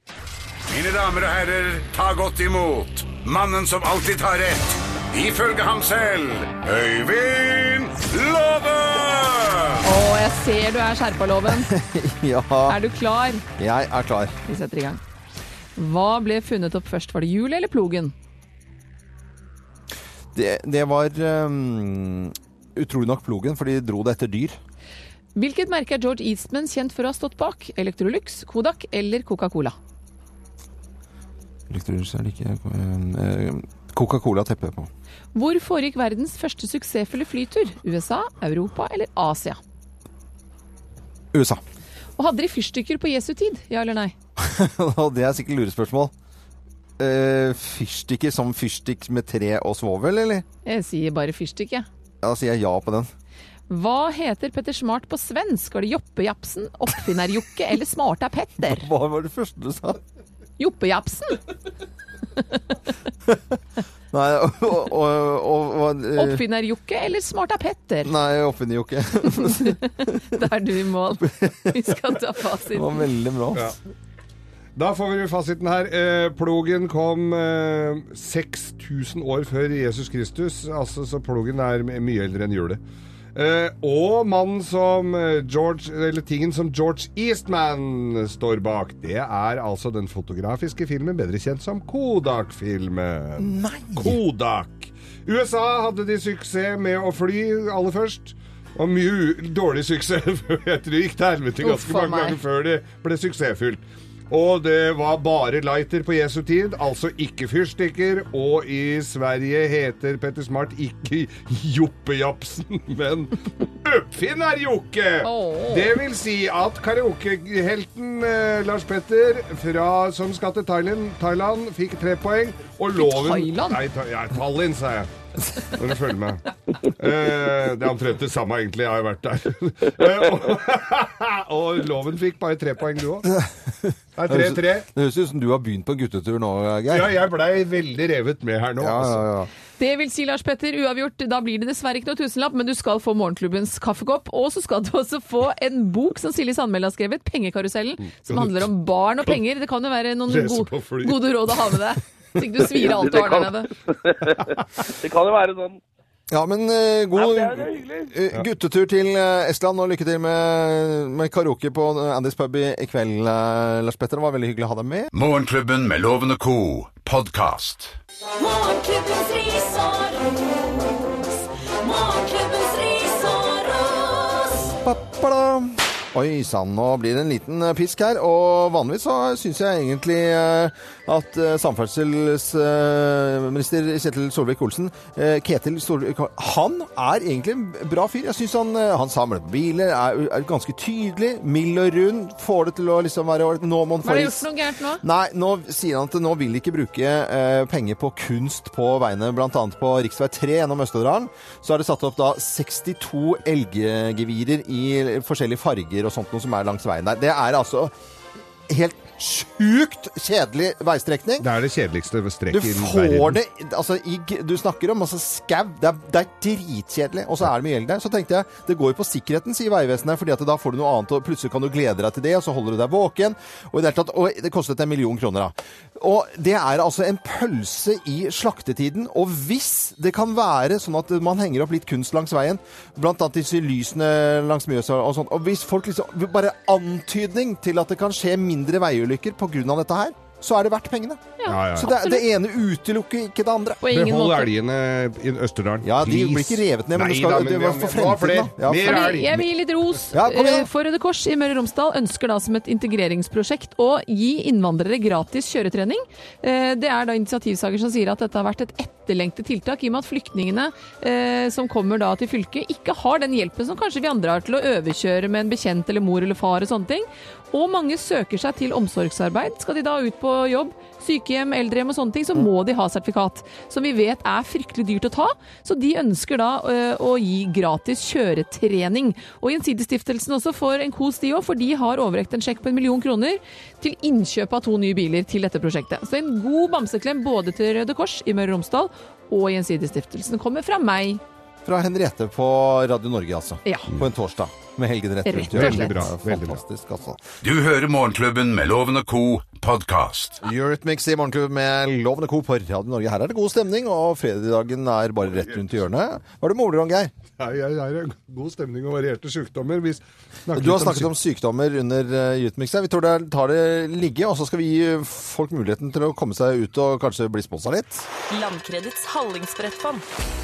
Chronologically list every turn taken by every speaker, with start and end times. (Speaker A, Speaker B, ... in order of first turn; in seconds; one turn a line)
Speaker A: 0.7-9.8
Speaker B: 9.8-11.7
Speaker C: 11.5-12.8
Speaker B: 12.7-13.4
Speaker C: 13.6-14.4
Speaker B: 14.5-15.0
Speaker B: 15.8-18.1
Speaker C: 20.3-24.6
Speaker B: 25.4-29.8
Speaker C: 31.7-34.9
Speaker B: 35.3-39.6
Speaker C: 41.3-41.6
Speaker B: 42.2-44.1
Speaker C: 44.4-46.1
Speaker C: 47.0-50.5
Speaker B: 50.6-51.9
Speaker C: 52.2-53.1
Speaker B: 53.7-58.9
Speaker C: 58.6-60.0
Speaker B: 60.6-61.4
Speaker C: 63.3-63.5
Speaker C: 64.1-66.4
Speaker B: 66.2-68.1
Speaker C: 68.0-70.1
Speaker B: 69.3-73.0
Speaker C: 71.2-71.9
Speaker C: 72.7-73.8
Speaker D: 74.8-82.8
Speaker D: 83.3-125.1
Speaker C: 93.4-94.2
Speaker B: 101.6-102.4
Speaker B: 115.2-115.9
Speaker B: 123.0-123.8
Speaker D: 125.8-126.5
Speaker D: 127.0-133.3
Speaker C: 133.2-137.2
Speaker D: 134.2-134.9
Speaker D: 136.9-139.4
Speaker C: 138.8-139.5
Speaker B: 139.8-153.7
Speaker D: 148.3-148.7
Speaker D: 150.3-151.7
Speaker E: 152.8-155.8
Speaker C: 156.3-165.1
Speaker E: 157.1-158.1
Speaker A: 165.1-168.0
Speaker F: 168.4-174.7
Speaker C: 174.8-194.5
Speaker B: 194.0-195.0
Speaker C: 195.0-207.9
Speaker C: 208.7-211.5
Speaker D: 211.4-213.4
Speaker C: 212.5-243.8
Speaker B: 241.4-242.3
Speaker D: 241.5-241.9
Speaker B: 243.8-244.5
Speaker D: 243.9-249.3
Speaker C: 245.8-249.4
Speaker B: 248.8-291.2
Speaker C: 250.1-250.7
Speaker C: 291.6-297.2
Speaker B: 293.6-293.9
Speaker B: 295.2-296.0
Speaker D: 295.5-296.6
Speaker A: 297.4-300.4
Speaker C: 300.4-307.1
Speaker D: 307.4-311.1
Speaker C: 310.5-318.1
Speaker F: 318.3-320.0